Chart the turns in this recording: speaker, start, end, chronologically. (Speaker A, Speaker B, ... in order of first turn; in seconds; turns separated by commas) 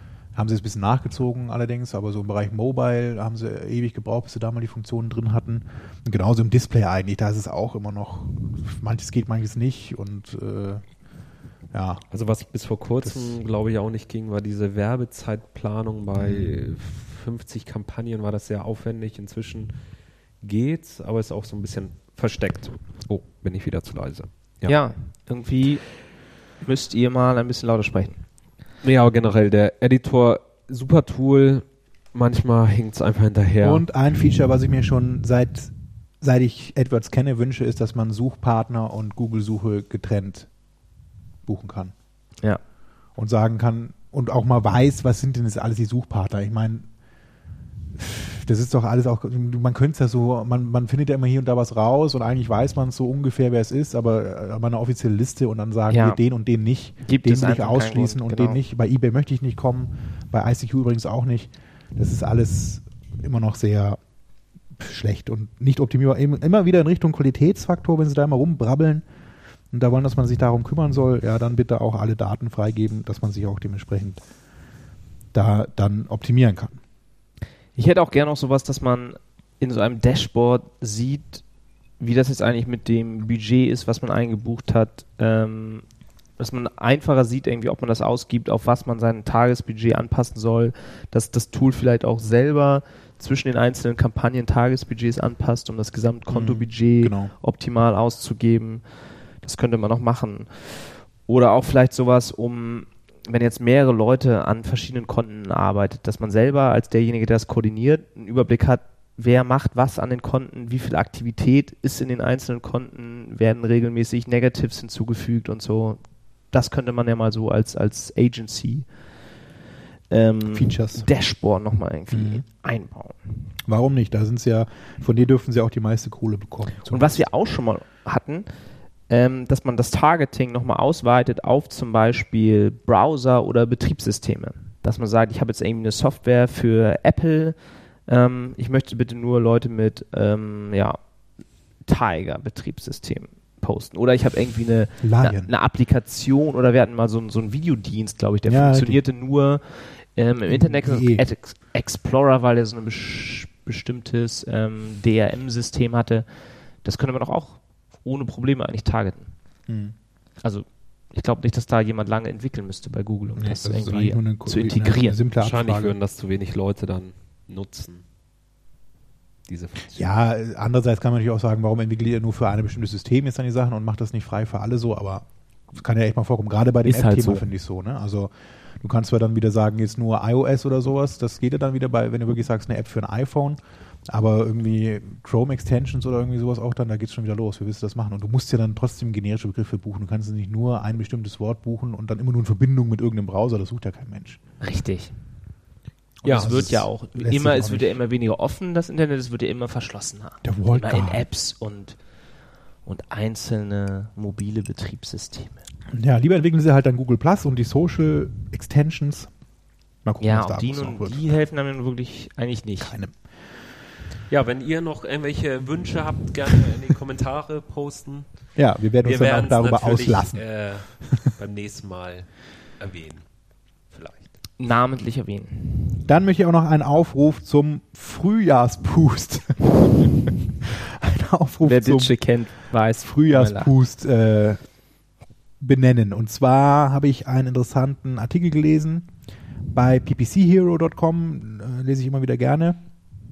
Speaker A: 0.3-10.8, Speaker A: 11.7-12.0, Speaker B: 12.1-19.7, Speaker A: 13.0-13.4, Speaker A: 16.1-16.7, Speaker B: 20.4-24.8, Speaker C: 24.7-25.9, Speaker C: 26.6-28.2, Speaker B: 28.8-33.9, Speaker A: 33.6-40.5, Speaker A: 41.5-41.9, Speaker A: 43.2-46.9, Speaker A: 48.0-64.0, Speaker C: 55.9-56.2, Speaker C: 57.0-58.6, Speaker A: 64.8-69.0, Speaker A: 69.7-74.2, Speaker A: 75.3-76.8, Speaker C: 77.8-81.4, Speaker C: 82.0-85.8, Speaker C: 86.4-98.8, Speaker A: 96.3-97.3, Speaker C: 99.4-116.0, Speaker C: 116.5-118.9, Speaker C: 120.1-123.4, Speaker A: 120.5-121.1, Speaker A: 122.1-122.4, Speaker A: 123.7-127.3, Speaker C: 126.9-128.5, Speaker C: 129.1-137.6, Speaker C: 138.1-141.0, Speaker C: 141.9-156.2, Speaker A: 145.0-145.5, Speaker A: 148.5-149.0, Speaker A: 150.5-151.2, Speaker C: 156.8-159.3, Speaker A: 159.7-159.9, Speaker C: 160.4-165.2, Speaker A: 163.4-166.0, Speaker B: 165.4-168.0, Speaker B: 169.5-170.1, Speaker A: 169.9-183.6, Speaker C: 176.8-177.5, Speaker A: 184.1-194.4, Speaker C: 194.6-195.1, Speaker A: 196.2-198.0, Speaker B: 196.2-196.6, Speaker C: 196.2-202.0, Speaker A: 200.4-201.3, Speaker C: 202.8-205.6, Speaker A: 205.9-209.3, Speaker A: 210.1-211.2, Speaker C: 210.2-212.9, Speaker A: 212.8-213.2, Speaker B: 214.3-218.3, Speaker A: 218.6-220.4, Speaker B: 219.0-222.3, Speaker B: 222.8-223.2, Speaker B: 223.9-224.3, Speaker C: 224.6-226.0, Speaker A: 226.1-232.2, Speaker C: 231.6-233.7, Speaker A: 233.0-234.6, Speaker A: 235.6-239.1, Speaker A: 239.7-242.8